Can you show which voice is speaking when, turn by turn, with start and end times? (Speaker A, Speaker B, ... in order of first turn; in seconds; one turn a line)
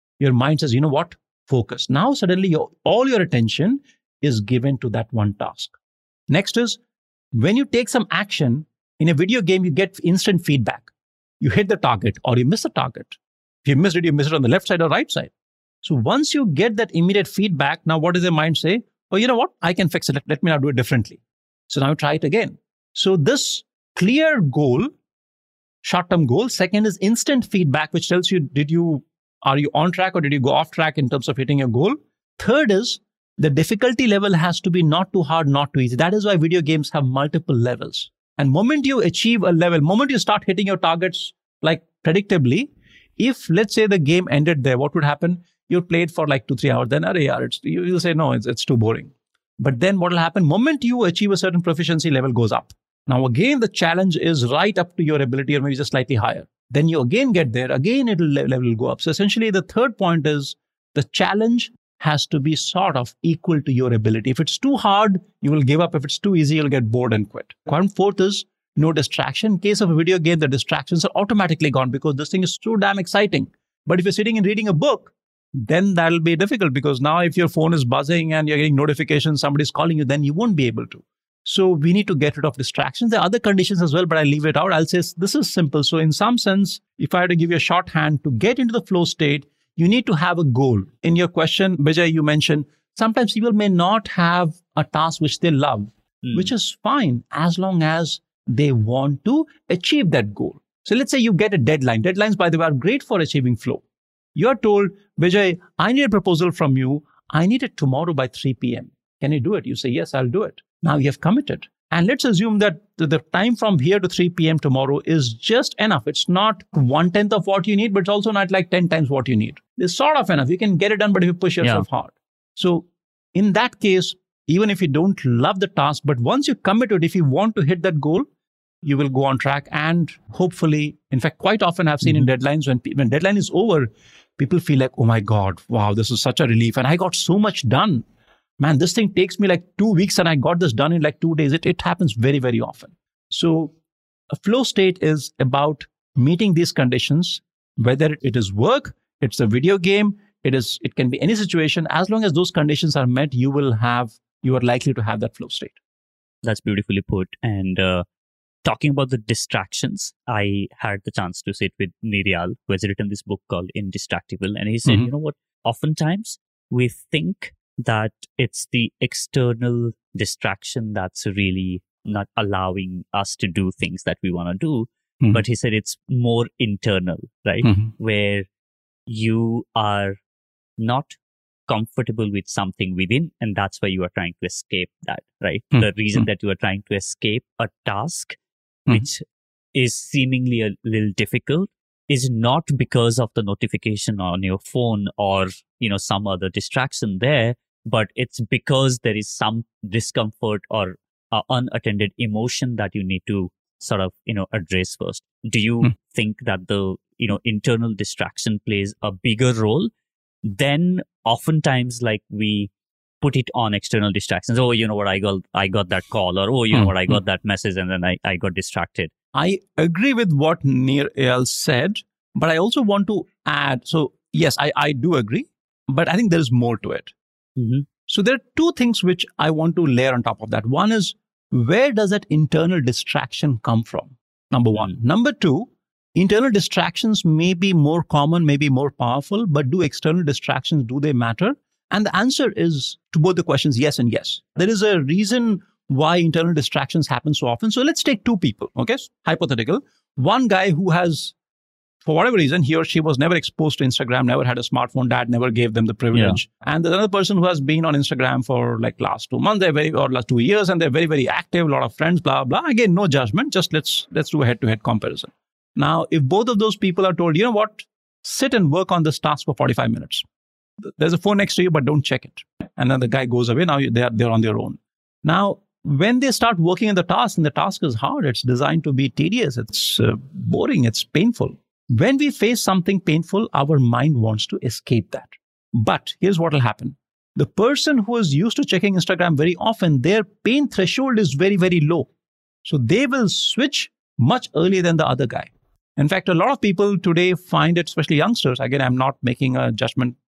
Speaker A: 0.2-5.8
Speaker A: 6.3-6.8
Speaker A: 7.3-15.3
Speaker A: 15.8-24.9
Speaker A: 25.8-103.8
Speaker B: 96.2-96.5
Speaker A: 104.3-128.2
Speaker A: 128.8-138.0
Speaker A: 138.6-143.7
Speaker A: 144.3-155.8
Speaker B: 156.4-158.0
Speaker B: 158.6-178.4
Speaker A: 177.6-177.9
Speaker B: 179.1-180.2
Speaker B: 180.8-181.2
Speaker B: 181.7-188.4
Speaker A: 185.7-186.2
Speaker B: 188.9-209.9
Speaker B: 210.4-219.1
Speaker A: 219.3-227.1
Speaker B: 227.6-227.8
Speaker A: 228.1-251.3
Speaker A: 252.0-270.2
Speaker B: 256.1-256.4
Speaker A: 271.0-292.1
Speaker A: 292.6-300.2